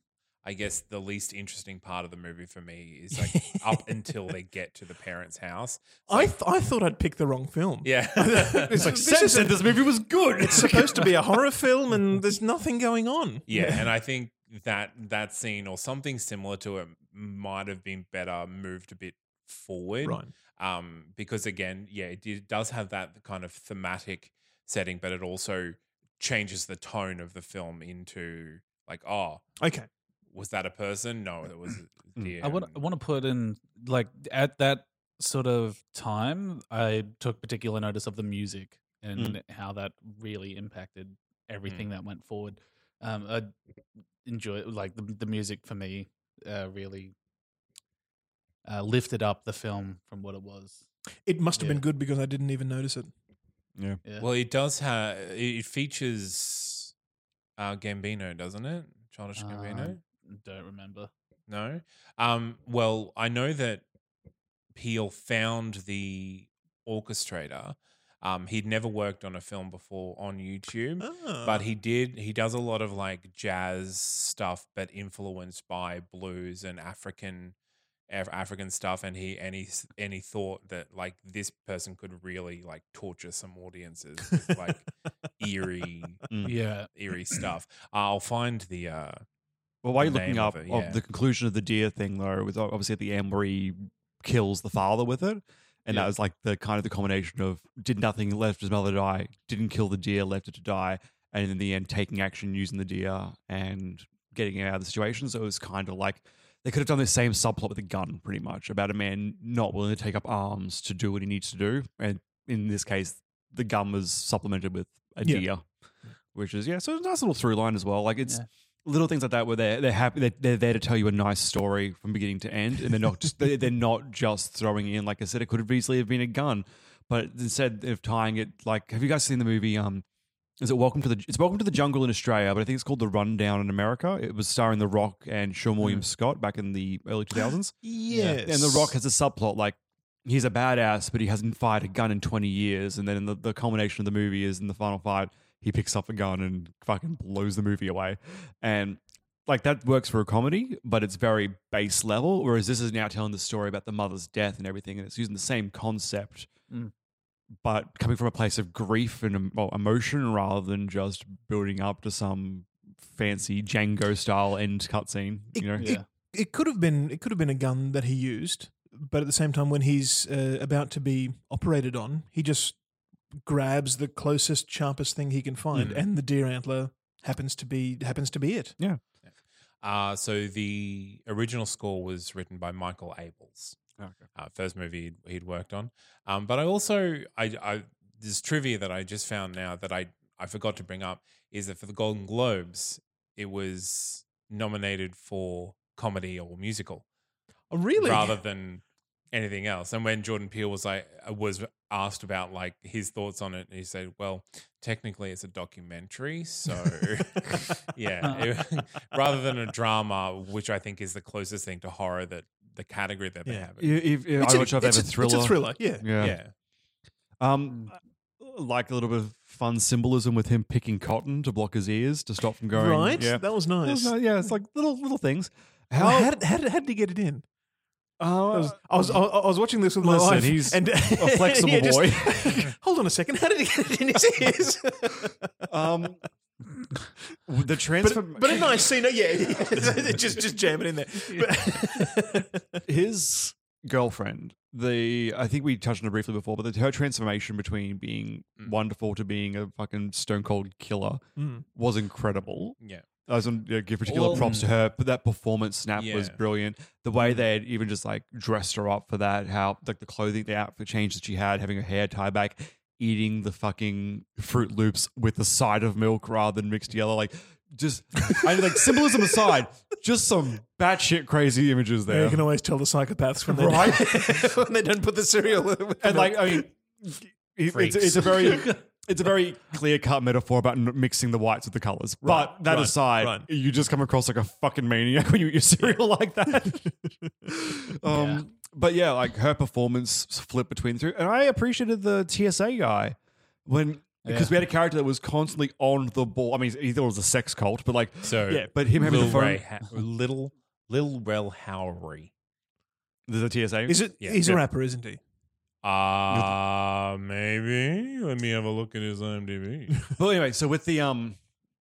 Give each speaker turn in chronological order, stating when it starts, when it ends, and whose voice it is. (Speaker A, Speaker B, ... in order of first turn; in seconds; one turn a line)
Speaker A: 0.4-6.3
Speaker B: 3.2-3.6
Speaker B: 6.1-9.6
Speaker A: 7.8-8.9
Speaker C: 8.7-11.2
Speaker B: 10.4-13.9
Speaker A: 13.5-29.5
Speaker B: 20.0-20.3
Speaker B: 29.6-29.9
Speaker A: 30.3-32.8
Speaker D: 32.4-43.5
Speaker D: 44.2-47.1
Speaker D: 48.6-50.9
Speaker B: 51.3-53.1
Speaker D: 51.6-51.8
Speaker A: 54.2-56.9
Speaker A: 57.6-60.0
Speaker D: 59.4-61.1
Speaker A: 61.5-63.9
Speaker A: 64.8-77.5
Speaker B: 71.0-71.6
Speaker A: 78.1-86.3
Speaker C: 86.3-86.6
Speaker D: 86.4-86.9
Speaker A: 87.0-89.2
Speaker C: 89.8-115.7
Speaker A: 90.0-91.0
Speaker C: 116.3-130.1
Speaker C: 130.6-137.8
Speaker B: 137.8-138.9
Speaker D: 138.1-138.4
Speaker C: 138.4-156.5
Speaker C: 157.6-166.0
Speaker B: 165.6-172.8
Speaker D: 165.8-166.1
Speaker B: 173.5-178.8
Speaker A: 175.8-176.1
Speaker A: 179.8-183.8
Speaker A: 184.4-197.1
Speaker B: 197.7-198.4
Speaker A: 198.0-214.0
Speaker D: 208.2-208.5
Speaker C: 213.8-216.4
Speaker B: 214.4-216.0
Speaker A: 216.2-216.5
Speaker C: 217.4-226.3
Speaker B: 222.7-224.5
Speaker B: 226.0-227.4
Speaker C: 228.2-229.2
Speaker B: 228.5-235.5
Speaker C: 230.0-232.7
Speaker C: 235.7-236.2
Speaker C: 237.5-238.7
Speaker B: 238.0-242.8
Speaker C: 242.9-272.4
Speaker B: 251.4-251.7
Speaker D: 254.1-254.7
Speaker A: 256.0-256.4
Speaker B: 272.1-276.7
Speaker C: 273.5-274.4
Speaker C: 276.0-299.6
Speaker D: 278.1-278.8
Speaker B: 282.2-283.5
Speaker D: 288.1-288.4
Speaker D: 294.3-294.6
Speaker A: 298.2-302.3
Speaker B: 298.5-298.9
Speaker C: 303.3-304.0
Speaker B: 303.9-305.2
Speaker A: 304.2-304.6
Speaker A: 305.8-310.0
Speaker C: 306.3-306.6
Speaker C: 310.2-311.4